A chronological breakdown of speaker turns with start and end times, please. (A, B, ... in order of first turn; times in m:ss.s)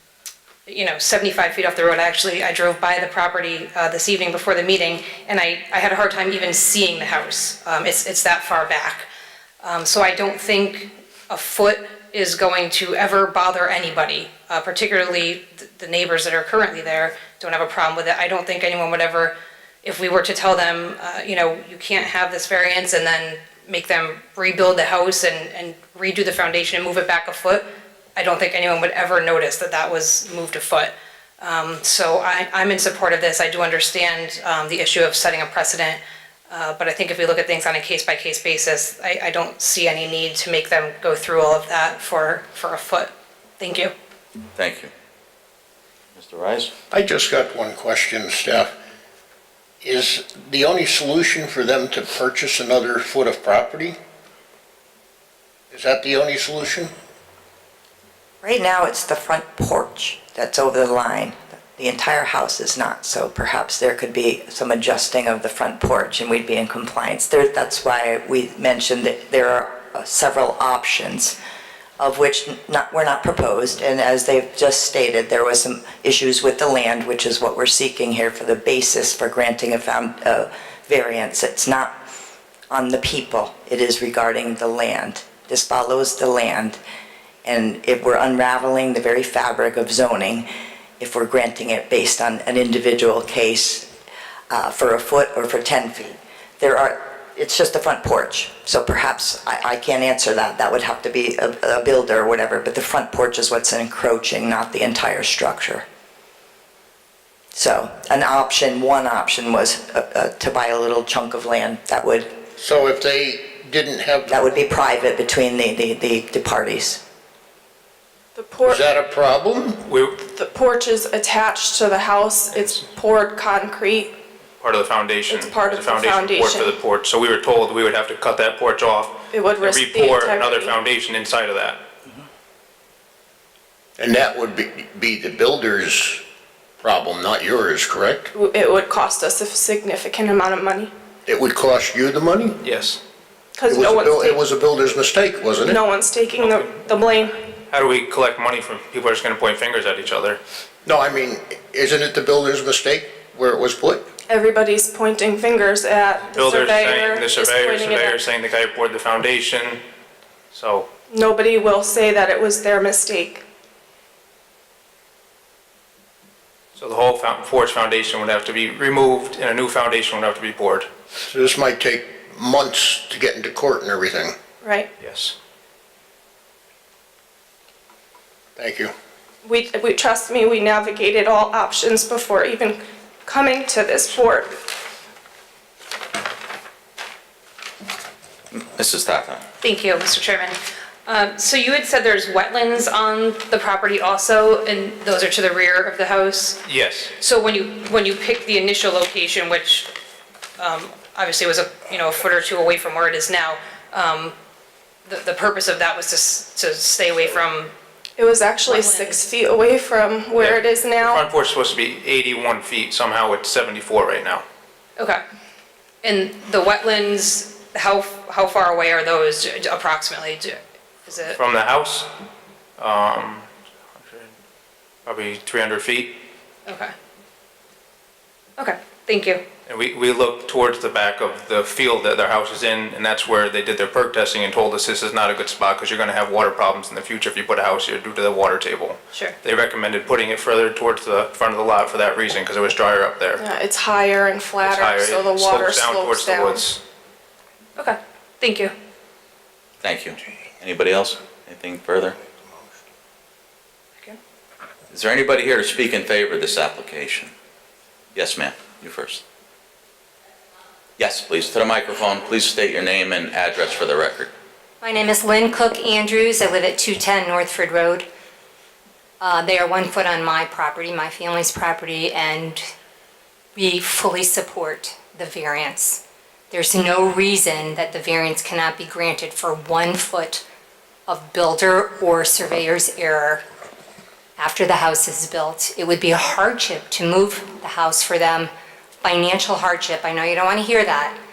0:00.7-0:09.1 A
0:09.6-0:43.9 A
0:44.6-0:44.9 B
0:46.2-0:46.7 B
0:46.9-0:48.7 C
0:49.8-0:54.0 C
0:55.7-0:56.9 C
0:58.4-1:11.4 D
1:12.0-1:22.0 D
1:22.7-1:26.8 D
1:27.4-1:30.5 D
1:31.0-1:33.9 D
1:34.5-1:45.8 D
1:47.5-1:52.4 D
1:52.6-1:54.4 C
1:54.3-1:57.0 D
1:58.4-1:58.8 E
1:58.7-1:59.9 C
1:59.9-2:00.2 F
2:00.3-2:04.2 E
2:04.6-2:11.8 F
2:05.3-2:06.8 E
2:09.3-2:10.7 E
2:14.0-2:16.2 C
2:16.8-2:18.3 C
2:18.3-2:20.9 E
2:21.3-2:22.6 C
2:22.6-2:23.0 F
2:23.6-2:24.4 E
2:23.7-2:25.8 C
2:25.6-2:27.3 E
2:26.4-2:30.4 F
2:30.8-2:34.1 C
2:34.3-2:38.1 E
2:36.3-2:39.8 F
2:40.5-2:40.9 F
2:41.1-2:43.4 E
2:46.8-2:50.9 F
2:51.2-2:54.3 C
2:54.6-2:54.9 E
2:55.0-2:55.3 F
2:58.6-2:58.9 C
2:59.4-3:04.8 E
3:08.5-3:09.4 B
3:09.6-3:16.6 A
3:16.7-3:17.1 F
3:17.2-3:19.9 A
3:20.6-3:24.4 A
3:25.1-3:27.7 A
3:28.2-3:31.2 E
3:28.7-3:29.2 A
3:30.4-3:34.4 F
3:36.0-3:41.4 A
3:41.3-3:42.1 F
3:42.8-3:43.5 F
3:44.0-3:44.3 F
3:45.1-3:46.2 F
3:46.7-3:46.9 A
3:48.6-3:49.4 A
3:49.7-4:03.4 F
4:03.4-4:06.6 E
4:04.6-4:06.8 F
4:07.8-4:08.7 A
4:09.8-4:12.2 B
4:14.9-4:17.3 B
4:18.2-4:19.2 B
4:21.0-4:24.3 B
4:24.8-4:28.1 G
4:29.2-4:32.6 G
4:33.6-4:40.4 G
4:41.1-4:43.4 G
4:44.4-4:48.5 G
4:49.0-4:51.2 G